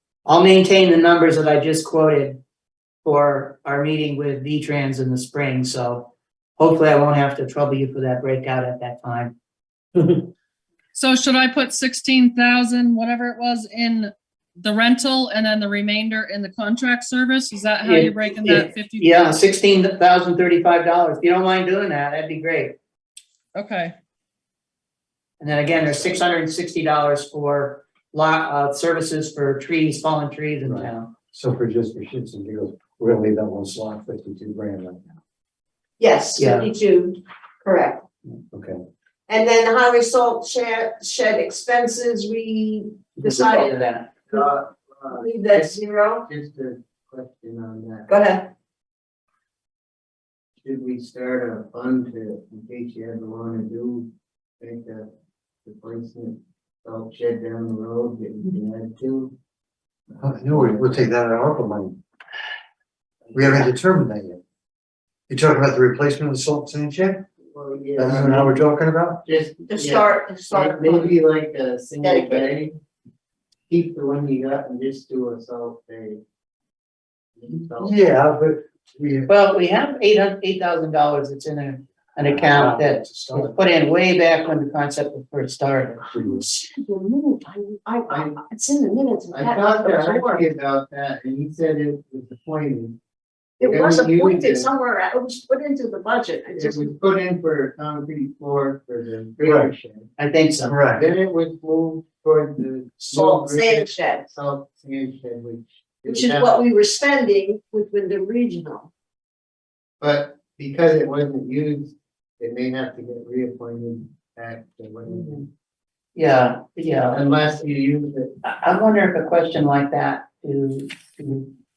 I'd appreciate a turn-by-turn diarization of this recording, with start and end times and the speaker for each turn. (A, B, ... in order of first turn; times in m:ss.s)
0:00.2-0:02.4 A
0:03.0-0:09.3 A
0:10.0-0:10.3 A
0:10.9-0:19.2 B
0:17.8-0:22.8 A
0:23.5-0:23.9 B
0:25.4-0:31.1 A
0:30.7-0:35.1 C
0:36.0-0:38.0 D
0:36.4-0:36.7 A
0:38.5-0:38.8 C
0:39.3-0:43.7 D
0:43.2-0:44.1 A
0:44.3-0:48.1 E
0:45.1-0:46.3 D
0:48.1-0:48.5 D
0:50.6-0:55.1 E
0:55.6-0:59.4 E
1:00.2-1:02.0 C
1:00.4-1:01.1 E
1:03.3-1:04.4 C
1:05.3-1:07.3 C
1:07.5-1:08.5 E
1:08.0-1:09.2 C
1:09.2-1:12.8 E
1:09.7-1:11.2 D
1:12.0-1:12.5 D
1:13.7-1:16.2 E
1:17.3-1:18.0 E
1:17.7-1:19.3 C
1:19.3-1:26.0 A
1:22.2-1:23.5 C
1:26.1-1:30.4 D
1:26.1-1:26.4 C
1:28.1-1:28.4 E
1:29.3-1:33.0 E
1:33.6-1:36.9 D
1:33.6-1:34.7 E
1:36.5-1:40.1 E
1:39.4-1:39.7 C
1:40.2-1:40.8 A
1:40.7-1:41.0 C
1:40.9-1:46.6 E
1:43.0-1:44.2 D
1:46.0-1:48.9 D
1:50.0-1:55.5 E
1:56.1-1:57.2 A
1:57.1-1:58.4 E
1:58.4-2:01.5 A